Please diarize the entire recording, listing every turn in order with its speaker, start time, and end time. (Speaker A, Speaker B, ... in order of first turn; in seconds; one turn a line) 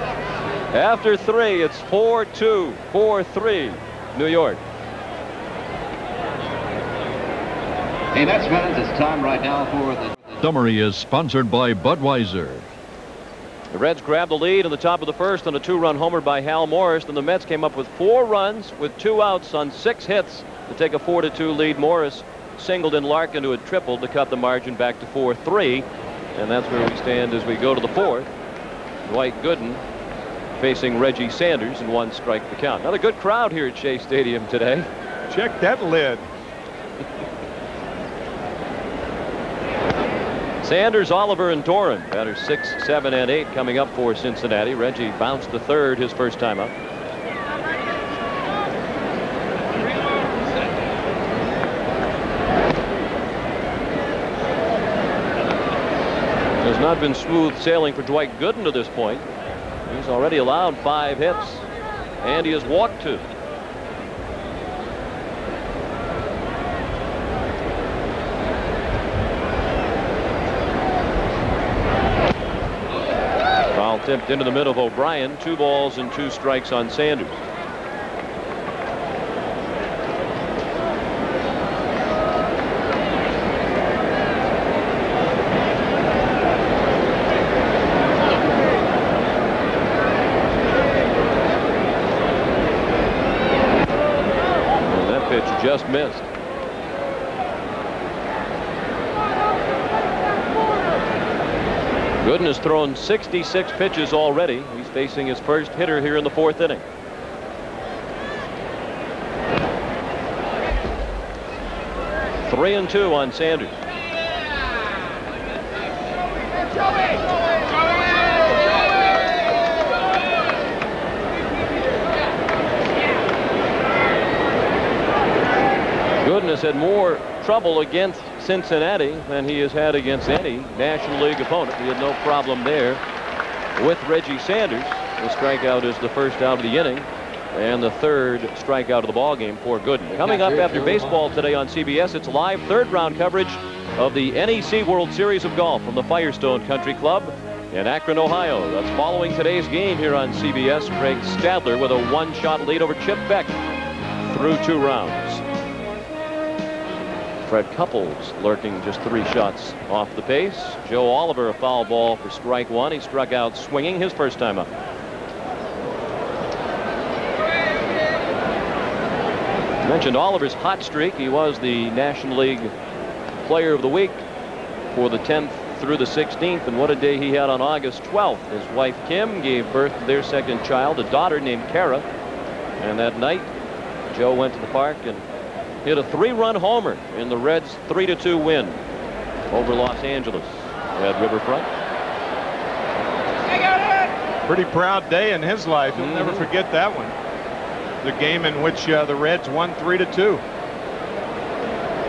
Speaker A: 0.7-4.6
Speaker B: 8.1-10.4
Speaker C: 10.4-12.7
Speaker A: 13.7-28.3
Speaker A: 29.1-29.8
Speaker A: 30.6-34.9
Speaker D: 35.3-36.2
Speaker A: 40.6-46.7
Speaker A: 56.6-59.3
Speaker A: 59.9-61.6
Speaker A: 62.2-63.3
Speaker A: 73.7-77.4
Speaker A: 94.8-96.3
Speaker A: 102.2-106.8
Speaker A: 112.5-113.8
Speaker A: 126.2-133.0
Speaker A: 133.8-153.5
Speaker B: 140.1-141.2
Speaker A: 154.2-155.4
Speaker A: 157.5-164.7
Speaker A: 169.8-172.7
Speaker A: 173.4-174.2
Speaker A: 174.9-182.1
Speaker A: 182.8-183.5
Speaker A: 184.1-185.3
Speaker A: 185.8-188.8
Speaker A: 189.5-191.7
Speaker D: 194.4-197.2
Speaker A: 196.0-196.5
Speaker D: 198.0-200.4